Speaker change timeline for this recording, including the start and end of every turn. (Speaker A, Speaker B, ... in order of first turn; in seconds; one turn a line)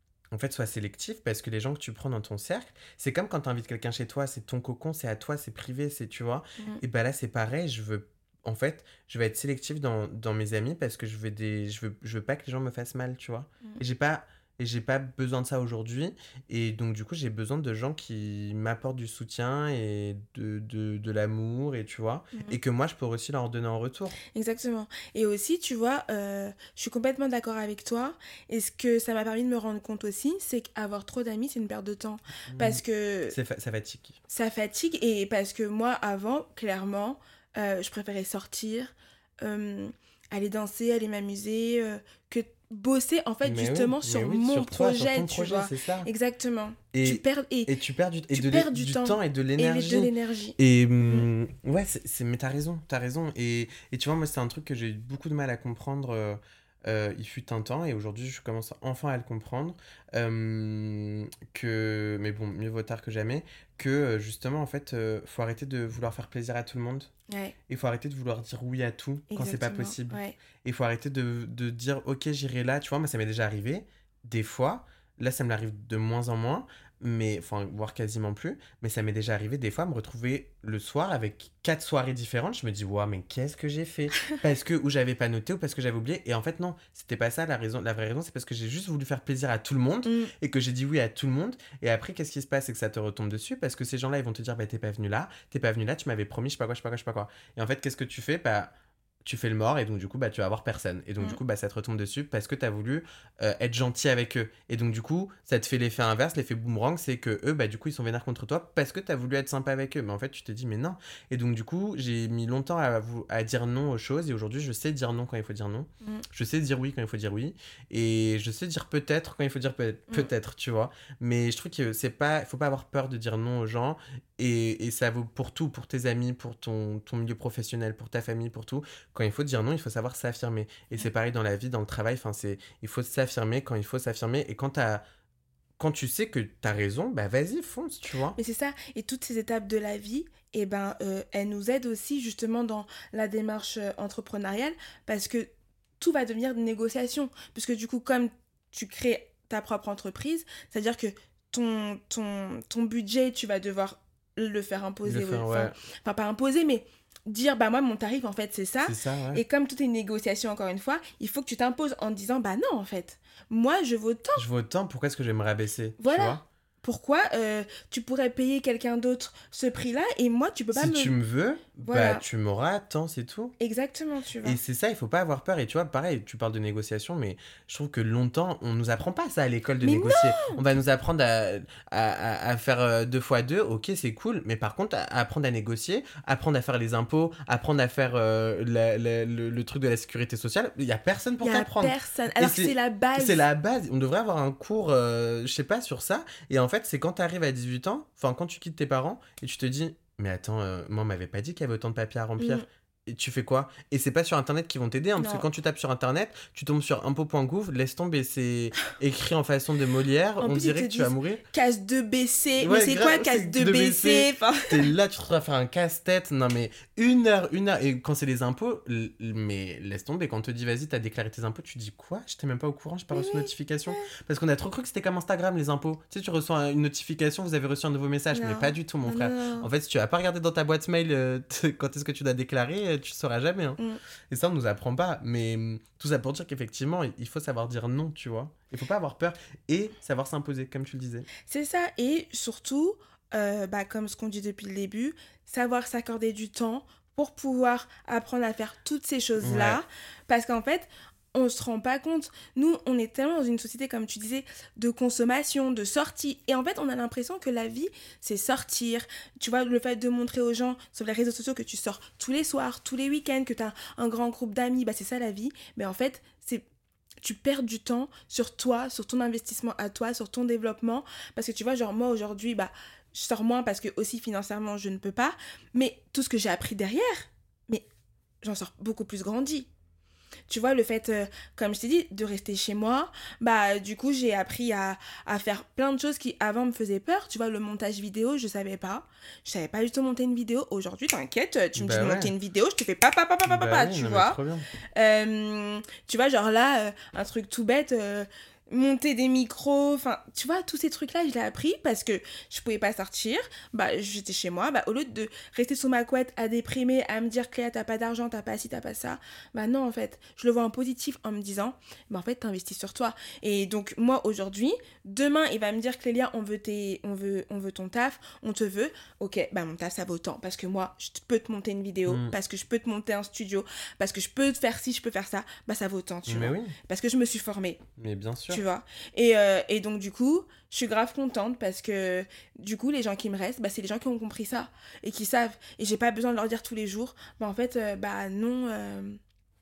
Speaker A: 0.3-24.1
Speaker B: 24.3-33.4
Speaker A: 32.5-34.2
Speaker B: 34.3-47.7
Speaker A: 43.4-46.1
Speaker A: 46.9-67.1
Speaker B: 48.3-51.3
Speaker B: 67.3-67.5
Speaker A: 67.7-98.7
Speaker B: 69.3-70.4
Speaker B: 90.0-90.3
Speaker A: 99.2-135.0
Speaker A: 135.8-138.4
Speaker B: 138.4-145.5
Speaker B: 146.0-164.4
Speaker A: 155.1-155.8
Speaker A: 158.8-159.4
Speaker A: 164.4-166.4
Speaker B: 166.0-171.1
Speaker A: 170.7-173.6
Speaker B: 171.8-172.2
Speaker B: 173.6-174.6
Speaker A: 174.4-211.4
Speaker B: 179.8-180.6
Speaker B: 191.4-193.4
Speaker B: 202.4-202.6
Speaker B: 205.2-205.5
Speaker B: 210.4-214.9
Speaker A: 212.6-241.3
Speaker B: 223.1-224.1
Speaker B: 228.3-229.7
Speaker B: 241.4-266.6
Speaker A: 249.4-249.8
Speaker B: 267.2-277.8
Speaker B: 278.4-279.7
Speaker B: 280.5-294.4
Speaker A: 291.8-292.3
Speaker A: 293.4-294.6
Speaker B: 294.9-327.8
Speaker A: 322.1-322.3
Speaker A: 326.3-326.7
Speaker A: 328.0-328.6
Speaker B: 328.5-339.2